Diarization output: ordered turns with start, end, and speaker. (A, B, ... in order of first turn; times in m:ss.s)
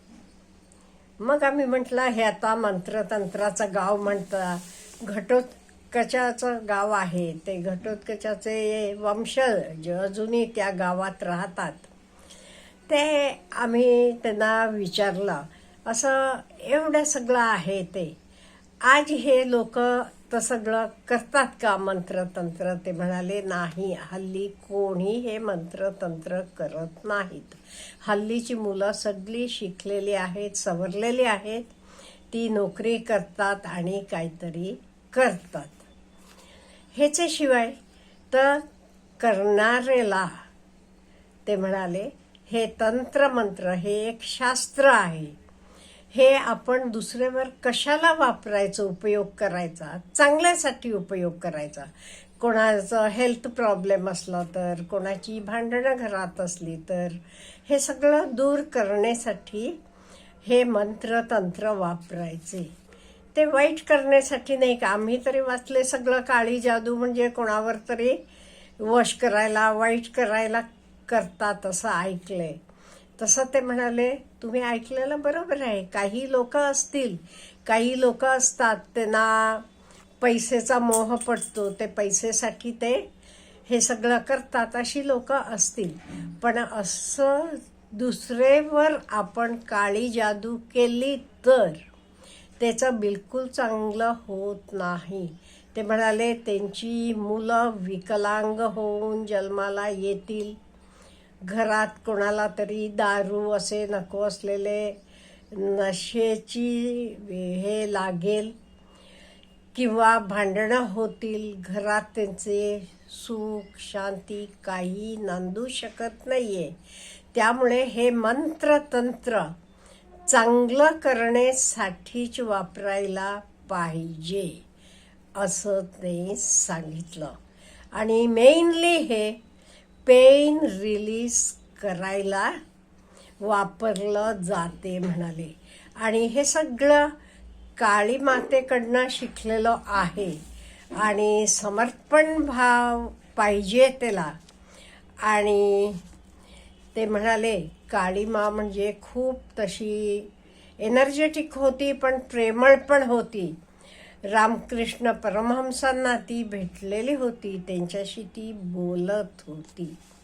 0:01.2-0:11.9 A
0:12.9-0:18.2 A
0:18.8-0:31.7 A
0:32.3-0:35.8 A
0:36.9-0:37.8 A
0:38.3-0:38.6 A
0:39.2-0:40.3 A
0:41.5-0:45.4 A
0:46.1-0:59.8 A
1:00.4-1:02.7 A
1:03.3-1:08.2 A
1:08.8-1:12.6 A
1:13.2-1:19.6 A
1:20.2-1:23.0 A
1:23.7-1:31.8 A
1:32.6-1:40.6 A
1:41.5-1:45.0 A
1:45.5-1:48.5 A
1:49.8-1:56.8 A
1:57.3-1:59.5 A
2:00.3-2:04.6 A
2:05.4-2:07.4 A
2:08.0-2:09.4 A
2:10.1-2:12.6 A
2:13.4-2:17.1 A
2:17.8-2:20.4 A
2:21.0-2:24.3 A
2:25.2-2:26.0 A
2:26.9-2:30.3 A
2:30.8-2:33.6 A
2:34.3-2:40.0 A